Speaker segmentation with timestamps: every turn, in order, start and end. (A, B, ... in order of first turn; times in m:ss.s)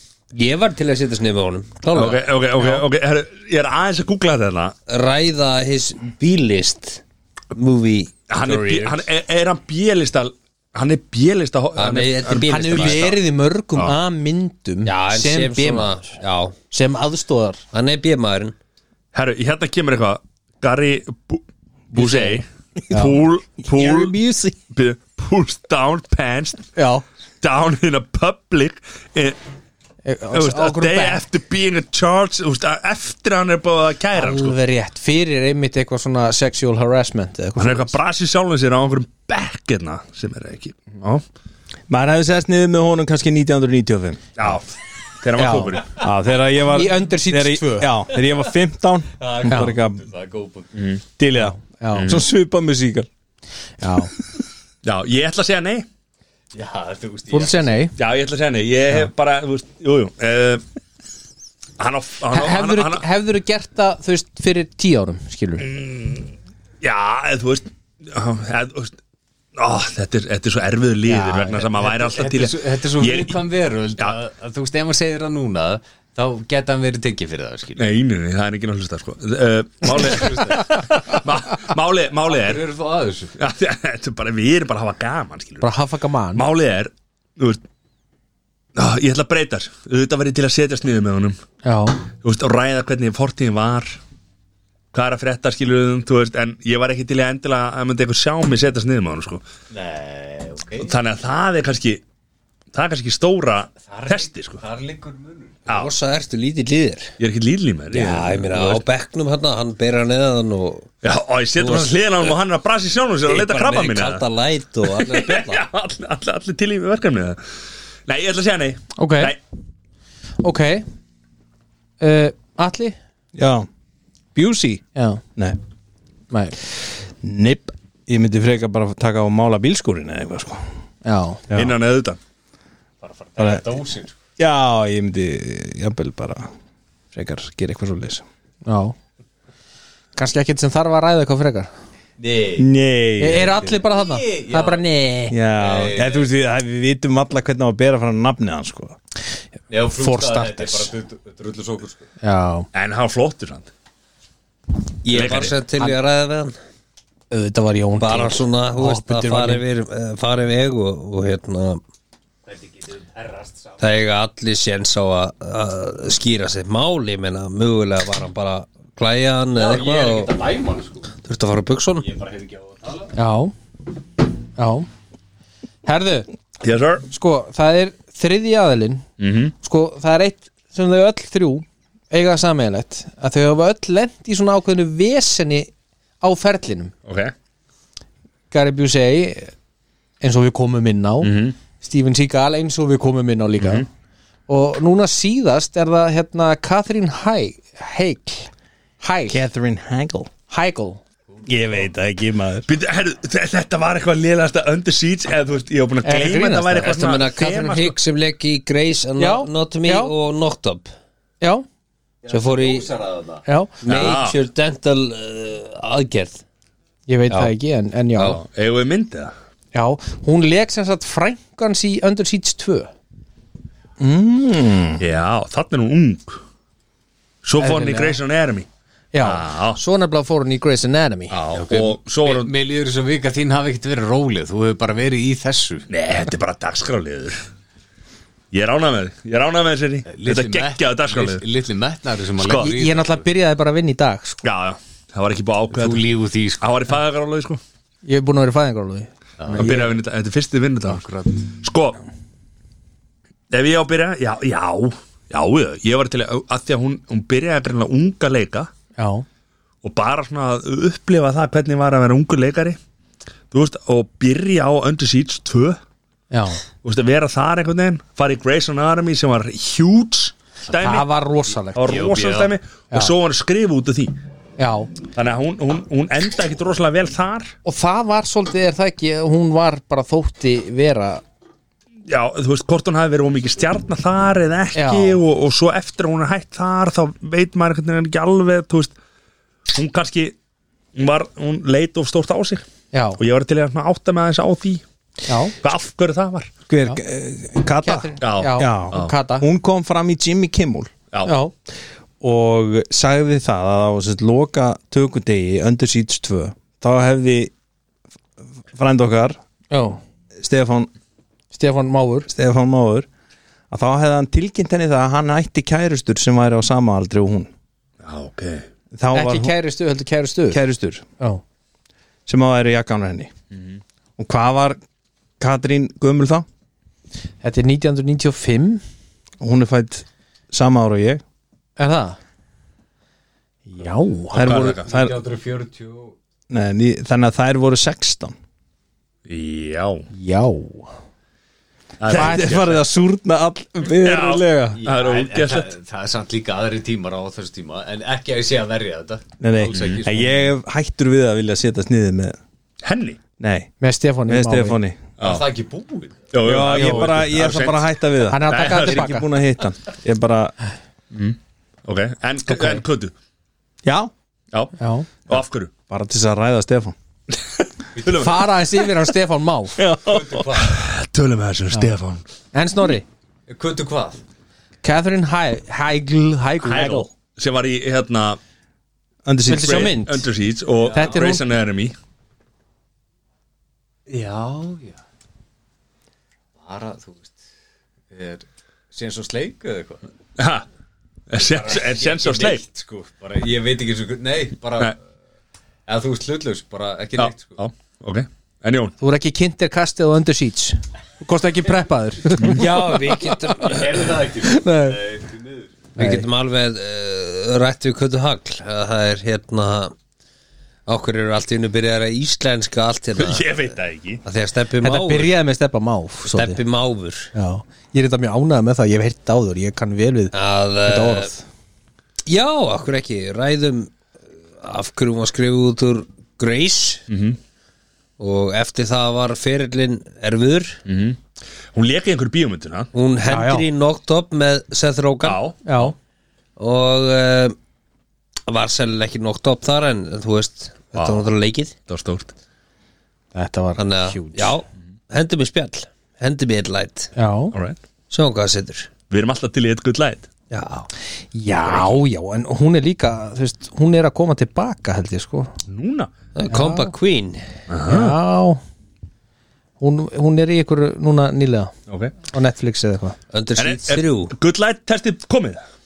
0:00.3-0:02.2 A
0:01.9-0:04.8 B
0:04.9-0:09.0 A
0:08.3-0:13.2 B
0:11.8-0:13.1 A
0:12.5-0:16.0 C
0:14.9-0:16.6 A
0:16.7-0:17.6 C
0:17.7-0:18.6 A
0:19.1-0:24.2 B
0:22.9-0:23.2 C
0:23.7-0:24.6 D
0:24.7-0:26.7 B
0:26.8-0:27.0 C
0:27.4-0:29.4 B
0:30.0-0:31.2 C
0:30.3-0:34.6 B
0:34.1-0:38.0 C
0:37.6-0:41.2 B
0:41.9-0:44.3 D
0:44.4-0:44.7 B
0:45.2-0:46.0 B
0:45.4-0:45.8 C
0:46.0-0:50.0 D
0:46.7-0:47.9 C
0:49.2-0:50.7 E
0:49.5-0:49.8 C
0:50.8-0:51.0 B
0:51.2-0:53.1 D
0:51.4-0:52.2 C
0:51.9-0:52.2 B
0:53.8-0:54.1 C
0:54.8-0:55.9 B
0:56.5-0:57.8 E
0:57.3-0:58.0 C
0:58.0-1:00.6 B
1:01.8-1:03.0 B
1:02.3-1:05.7 C
1:05.6-1:09.0 B
1:09.6-1:13.4 B
1:11.1-1:11.7 C
1:11.8-1:17.8 E
1:17.8-1:22.6 B
1:19.9-1:20.7 E
1:22.2-1:23.4 E
1:23.4-1:25.7 B
1:25.6-1:26.4 C
1:26.3-1:27.6 B
1:28.8-1:31.4 B
1:31.6-1:32.0 C
1:32.2-1:34.0 B
1:34.9-1:39.4 B
1:39.7-1:41.0 E
1:40.8-1:42.0 B
1:42.7-1:44.6 B
1:43.8-1:45.7 E
1:45.7-1:45.9 B
1:45.7-1:47.2 A
1:47.2-1:48.8 B
1:47.9-1:50.9 A
1:51.0-1:54.3 B
1:51.6-1:52.4 A
1:53.3-1:55.6 A
1:54.8-1:57.5 B
1:58.1-1:59.4 B
1:59.0-1:59.4 C
2:00.4-2:00.9 C
2:02.0-2:03.0 C
2:03.4-2:03.7 D
2:04.4-2:04.8 D
2:05.0-2:05.2 C
2:06.3-2:06.6 C
2:07.2-2:10.6 D
2:11.0-2:11.4 C
2:11.5-2:12.2 B
2:13.0-2:14.2 E
2:13.4-2:13.6 D
2:14.4-2:16.5 D
2:17.1-2:18.2 D
2:18.7-2:19.0 C
2:20.2-2:21.7 C
2:22.2-2:22.7 E
2:22.6-2:23.7 D
2:23.2-2:25.4 C
2:23.5-2:24.8 E
2:25.3-2:29.0 D
2:25.6-2:26.3 E
2:29.7-2:32.1 E
2:29.9-2:30.9 C
2:32.2-2:32.7 C
2:32.7-2:33.7 B
2:35.0-2:36.6 A
2:35.1-2:35.6 B
2:37.3-2:39.7 C
2:38.0-2:41.8 A
2:42.5-2:43.8 E
2:43.8-2:50.3 A
2:49.5-2:51.1 E
2:51.2-2:52.1 A
2:52.0-2:53.1 E
2:53.2-2:53.5 C
2:54.6-2:54.9 C
2:55.8-2:56.3 C
2:56.6-2:57.1 B
2:57.1-2:59.0 C
2:59.2-2:59.5 B
2:59.6-3:06.9 C
3:07.1-3:07.3 B
3:08.5-3:09.5 C
3:10.2-3:13.9 C
3:11.2-3:11.6 B
3:13.6-3:13.9 B
3:14.5-3:19.4 C
3:19.3-3:20.3 D
3:20.5-3:21.0 C
3:21.5-3:22.7 D
3:22.7-3:28.0 B
3:26.0-3:27.0 C
3:26.8-3:30.9 A
3:29.2-3:30.1 C
3:32.2-3:33.4 E
3:32.3-3:32.9 A
3:33.5-3:33.8 C
3:33.8-3:36.4 A
3:33.9-3:34.4 B
3:37.1-3:38.4 C
3:38.2-3:39.3 B
3:39.7-3:42.9 C
3:44.0-3:45.0 D
3:45.0-3:46.4 B
3:47.4-3:48.7 B
3:47.6-3:48.2 C
3:49.1-3:51.4 C
3:49.2-3:49.8 B
3:51.3-3:52.5 B
3:51.5-3:55.9 E
3:55.9-3:57.4 B
3:58.5-4:01.4 B
4:00.1-4:03.2 E
4:02.4-4:02.7 B
4:02.6-4:04.4 C
4:04.4-4:06.0 B
4:05.7-4:06.7 E
4:06.6-4:07.6 B
4:08.0-4:09.9 C
4:09.4-4:09.7 E
4:09.5-4:11.0 B
4:10.8-4:11.4 E
4:11.6-4:12.0 B
4:13.5-4:18.7 B
4:19.0-4:19.2 C
4:19.8-4:22.8 B
4:23.5-4:25.8 B
4:26.3-4:26.6 C
4:26.8-4:31.1 B
4:30.7-4:32.0 C
4:31.8-4:34.2 B
4:31.9-4:32.5 E
4:34.6-4:34.9 C
4:35.1-4:37.5 B
4:37.6-4:41.2 C
4:42.1-4:49.0 B
4:44.8-4:45.2 C
4:49.7-4:50.4 B
4:51.0-4:52.6 B
4:52.9-4:53.2 C
4:53.2-4:54.8 B
4:55.3-4:55.6 C
4:55.6-4:56.5 B
4:56.7-5:00.9 D
4:57.8-4:59.5 C
4:58.2-4:59.1 B
5:01.2-5:01.5 C
5:02.2-5:07.5 D
5:08.7-5:09.4 D
5:09.7-5:10.0 C
5:10.4-5:10.9 D
5:11.5-5:12.3 C
5:12.3-5:13.1 D
5:13.7-5:17.5 D
5:18.0-5:18.7 B
5:18.9-5:19.5 D
5:19.1-5:20.6 C
5:20.5-5:21.0 D
5:22.3-5:23.3 D
5:23.5-5:23.8 B
5:24.2-5:24.8 D
5:25.4-5:26.5 D
5:27.4-5:28.8 C
5:29.4-5:31.2 D
5:31.8-5:32.2 C
5:33.7-5:34.6 C
5:34.3-5:35.2 D
5:34.4-5:34.9 B
5:34.5-5:36.2 E
5:36.5-5:38.4 D
5:39.3-5:40.1 B
5:40.1-5:40.9 C
5:42.0-5:42.8 B
5:42.1-5:44.8 D
5:42.1-5:42.6 C
5:44.0-5:45.7 B
5:44.8-5:50.5 E
5:49.4-5:52.4 D
5:49.7-5:50.0 B
5:52.8-5:53.2 B
5:53.4-5:53.7 D
5:53.8-5:54.8 C
5:54.3-5:55.0 D
5:55.2-5:55.5 B
5:55.2-5:56.3 E
5:56.3-5:57.9 B
5:56.4-6:00.6 D
5:58.3-5:59.3 C
5:58.5-5:59.1 B
6:01.1-6:03.1 B
6:03.8-6:04.1 D
6:04.8-6:05.1 C
6:05.3-6:05.7 B
6:05.9-6:07.0 D
6:07.3-6:08.5 B
6:08.0-6:08.2 E
6:08.1-6:09.8 C
6:09.8-6:10.4 D
6:10.1-6:10.8 E
6:10.5-6:12.2 B
6:12.5-6:13.0 C
6:13.5-6:14.2 E
6:14.8-6:17.1 C
6:16.6-6:18.4 B
6:19.2-6:20.0 D
6:19.5-6:20.3 C
6:19.6-6:22.0 B
6:20.8-6:21.3 E
6:20.9-6:21.4 C
6:24.1-6:25.0 E
6:26.6-6:27.4 E
6:28.1-6:30.1 E
6:30.4-6:30.7 B
6:31.3-6:32.6 B
6:31.4-6:35.0 E
6:35.9-6:37.6 E
6:37.2-6:38.9 B
6:39.0-6:43.0 C
6:42.4-6:44.1 A
6:43.6-6:45.8 E
6:44.4-6:45.0 C
6:46.0-6:49.9 A
6:46.0-6:46.3 C
6:50.9-6:53.5 A
6:53.2-6:54.2 B
6:54.2-6:55.4 A
6:54.8-6:56.6 C
6:56.2-6:57.3 A
6:57.3-7:00.3 C
7:00.3-7:01.3 A
7:00.8-7:01.4 C
7:02.3-7:04.0 A
7:04.6-7:07.0 A
7:07.1-7:07.4 B
7:08.2-7:10.8 A
7:10.9-7:11.2 B
7:11.7-7:12.9 B
7:12.9-7:15.4 A
7:13.3-7:13.7 C
7:15.2-7:15.9 B
7:15.6-7:15.9 C
7:16.6-7:17.6 A
7:18.5-7:21.8 A
7:20.9-7:21.3 B
7:21.9-7:22.3 B
7:23.3-7:24.6 C
7:23.8-7:27.1 A
7:27.2-7:27.6 C
7:27.5-7:27.8 B
7:28.1-7:28.9 A
7:29.1-7:30.3 B
7:30.5-7:30.9 A
7:31.3-7:35.5 C
7:31.6-7:32.0 B
7:35.7-7:36.1 B
7:36.4-7:37.4 A
7:36.5-7:36.9 C
7:37.7-7:38.2 B
7:37.9-7:38.6 C
7:39.8-7:41.7 C
7:41.9-7:42.1 B
7:42.3-7:43.2 C
7:43.3-7:44.3 A
7:43.6-7:45.6 B